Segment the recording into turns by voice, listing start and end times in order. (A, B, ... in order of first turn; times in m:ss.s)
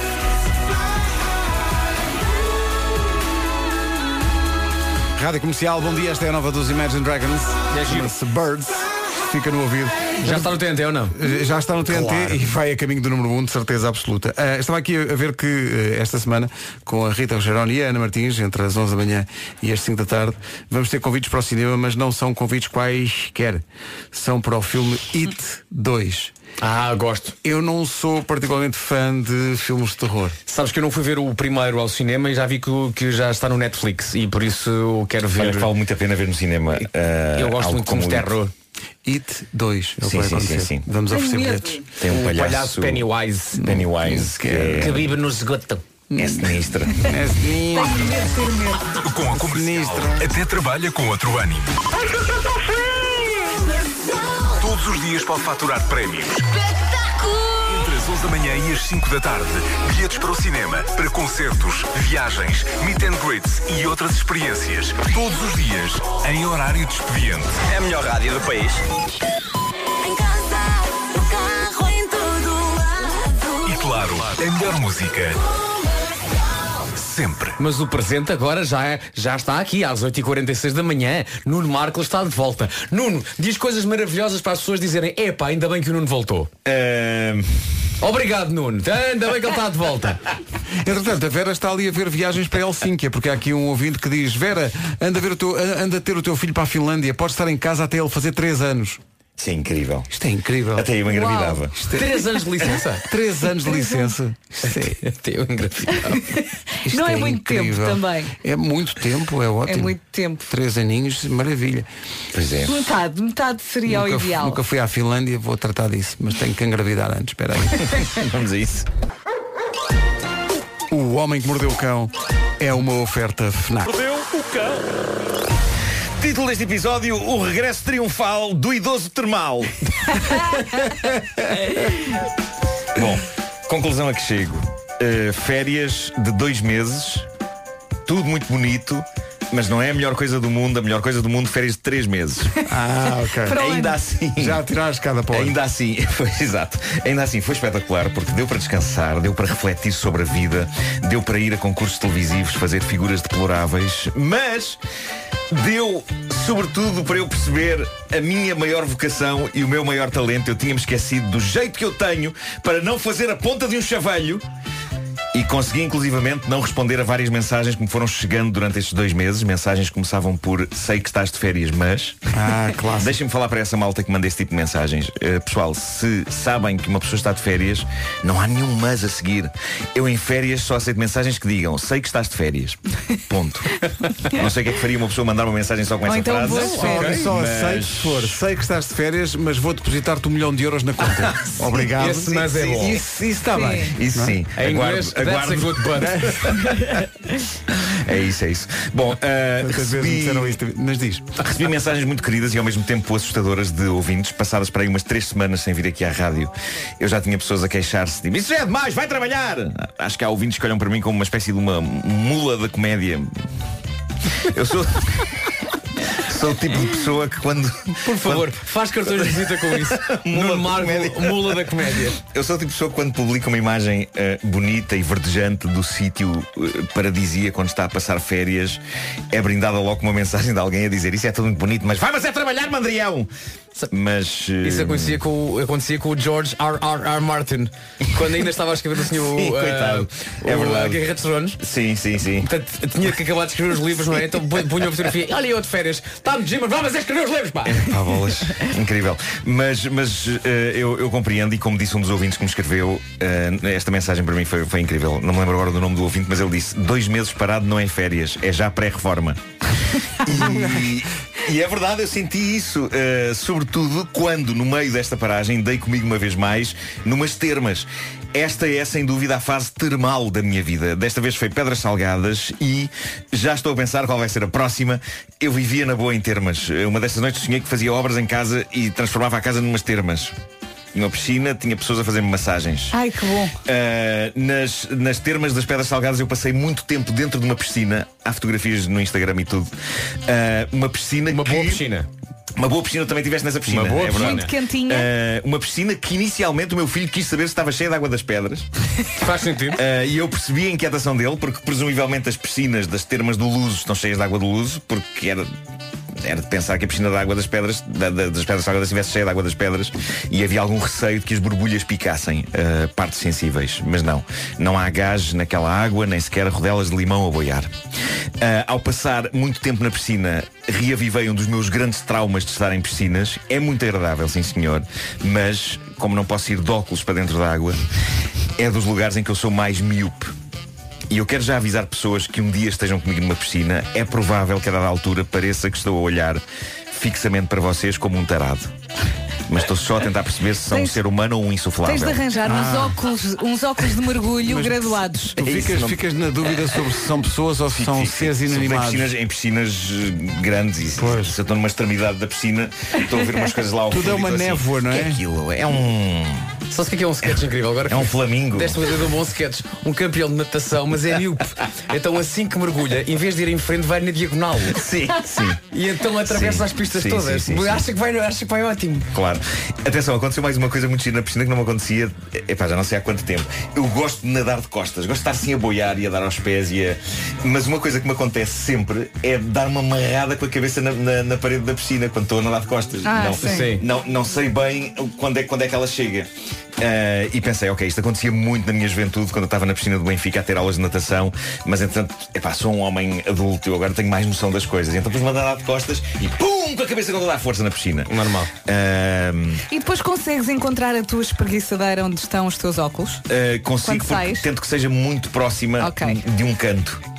0:05.1-0:10.6 A
0:07.7-0:08.1 B
0:10.2-0:11.2 B
0:11.1-0:26.3 A
0:11.9-0:12.4 B
0:26.6-0:27.4 B
0:27.4-0:30.4 A
0:30.5-0:35.7 B
0:35.3-0:38.3 C
0:36.7-0:38.5 B
0:39.0-0:42.2 A
0:40.0-0:40.8 C
0:41.1-0:41.8 D
0:42.0-0:43.1 C
0:42.0-0:45.8 B
0:43.6-0:45.0 A
0:43.6-0:45.1 C
0:46.1-0:48.3 A
0:46.2-0:47.0 C
0:47.7-0:48.9 D
0:49.0-0:51.8 E
0:49.3-0:50.3 A
0:54.6-0:56.5 E
0:57.6-1:08.3 E
1:13.6-1:15.4 E
1:16.9-1:17.6 E
1:17.6-1:26.5 B
1:26.6-1:27.5 C
1:28.0-1:30.2 B
1:30.7-1:39.0 A
1:39.4-1:40.1 C
1:40.1-1:40.9 A
1:40.7-1:41.8 C
1:41.0-1:41.6 D
1:41.8-1:42.3 A
1:41.8-1:43.0 B
1:43.0-1:45.0 A
1:43.6-1:44.1 D
1:44.6-1:46.4 B
1:46.8-1:50.0 A
1:46.8-1:48.4 D
1:49.7-1:50.5 D
1:50.5-1:51.9 A
1:52.3-1:52.8 C
1:52.6-1:54.6 D
1:53.8-1:58.1 A
1:57.8-1:58.8 C
2:00.9-2:03.9 A
2:03.9-2:04.8 C
2:06.2-2:10.2 C
2:12.9-2:17.3 C
2:18.0-2:22.6 C
2:22.6-2:23.6 A
2:23.4-2:24.0 D
2:23.5-2:24.6 C
2:24.4-2:25.6 A
2:25.3-2:34.8 C
2:35.5-2:44.4 C
2:45.3-2:52.2 C
2:52.3-2:53.2 A
2:53.0-3:03.7 C
3:04.3-3:08.4 C
3:06.0-3:07.2 D
3:06.4-3:14.4 A
3:06.7-3:07.3 B
3:11.1-3:11.6 C
3:11.9-3:13.0 B
3:13.5-3:13.9 D
3:13.8-3:15.8 C
3:14.5-3:16.6 B
3:15.9-3:16.8 A
3:17.9-3:20.6 C
3:19.6-3:21.4 A
3:21.4-3:33.3 C
3:34.5-3:35.1 C
3:36.2-3:41.7 C
3:38.0-3:42.2 B
3:42.2-3:48.8 C
3:49.3-3:53.3 C
3:53.9-3:55.2 C
3:54.6-4:01.6 B
3:59.2-4:01.0 C
4:01.6-4:02.5 C
4:02.4-4:07.9 B
4:07.7-4:19.4 C
4:20.2-4:40.3 C
4:20.3-4:20.9 A
4:40.9-4:42.9 C
4:42.9-4:43.6 D
4:43.6-4:49.7 C
4:50.2-4:51.8 C
4:51.3-4:52.1 B
4:52.6-4:58.6 C
4:53.6-4:54.5 B
4:54.1-4:55.1 D
4:59.2-4:59.8 B
4:59.7-5:05.5 C
5:06.2-5:17.7 C
5:18.4-5:27.8 C
5:28.6-5:30.3 C
5:31.1-5:38.7 C
5:39.5-5:42.2 C
5:40.7-5:41.0 D
5:41.8-5:45.4 D
5:42.4-5:43.0 A
5:44.4-5:49.1 A
5:45.4-5:46.0 C
5:47.7-5:56.5 C
5:51.0-5:51.4 A
5:53.9-5:55.2 A
5:56.7-6:04.9 B
5:57.8-5:58.8 C
6:04.7-6:05.6 C
6:05.5-6:09.1 B
6:06.2-6:07.8 C
6:09.1-6:38.1 C
6:23.0-6:23.7 D
6:23.4-6:23.8 B
6:38.1-6:38.5 B
6:38.6-6:39.6 C
6:39.7-6:43.2 D
6:43.3-6:47.0 C
6:43.8-6:44.5 D
6:45.8-6:46.2 D